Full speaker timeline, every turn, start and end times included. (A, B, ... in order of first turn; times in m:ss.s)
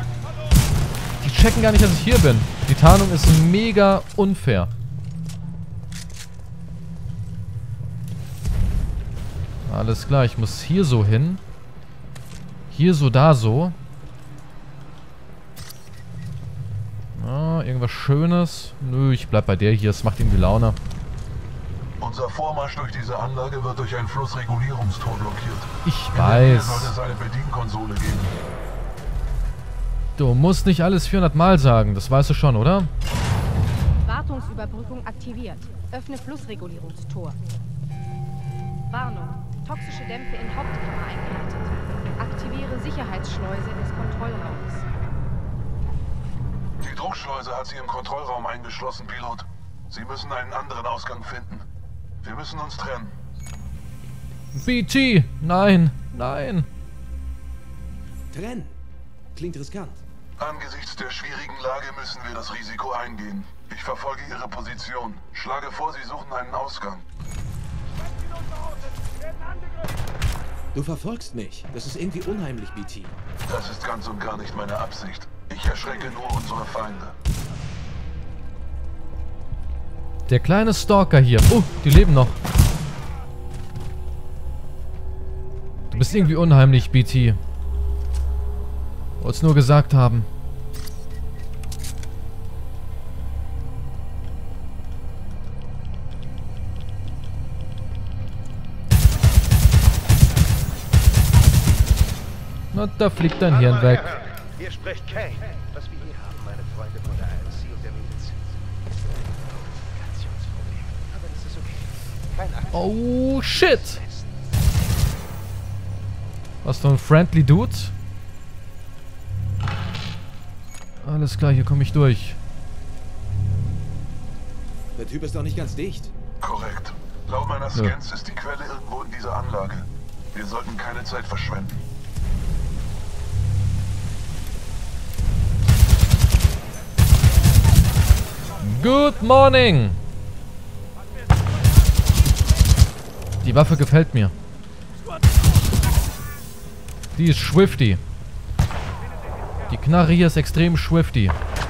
0:01.2-0:04.7 A
0:09.7-0:11.4 A
0:12.7-0:13.8 A
0:17.2-0:20.8 A
0:22.0-0:28.4 B
0:25.8-0:26.9 A
0:30.2-0:32.9 A
0:34.0-0:37.4 C
0:38.9-0:44.9 C
0:46.8-0:51.6 B
0:52.2-0:53.2 B
0:54.5-0:56.7 A
0:58.3-0:58.8 D
0:59.3-1:00.0 D
1:00.4-1:07.1 B
1:10.7-1:13.2 D
1:13.5-1:17.2 B
1:20.3-1:22.4 A
1:25.9-1:27.4 A
1:29.2-1:30.3 A
1:42.7-1:44.1 A
1:43.5-1:54.5 E
1:52.7-1:54.0 A
1:56.6-1:57.9 A
2:01.0-2:02.4 A
2:05.0-2:06.1 D
2:06.4-2:11.9 B
2:18.6-2:20.0 A
2:23.4-2:24.3 A
2:27.2-2:28.0 A
2:29.7-2:31.4 A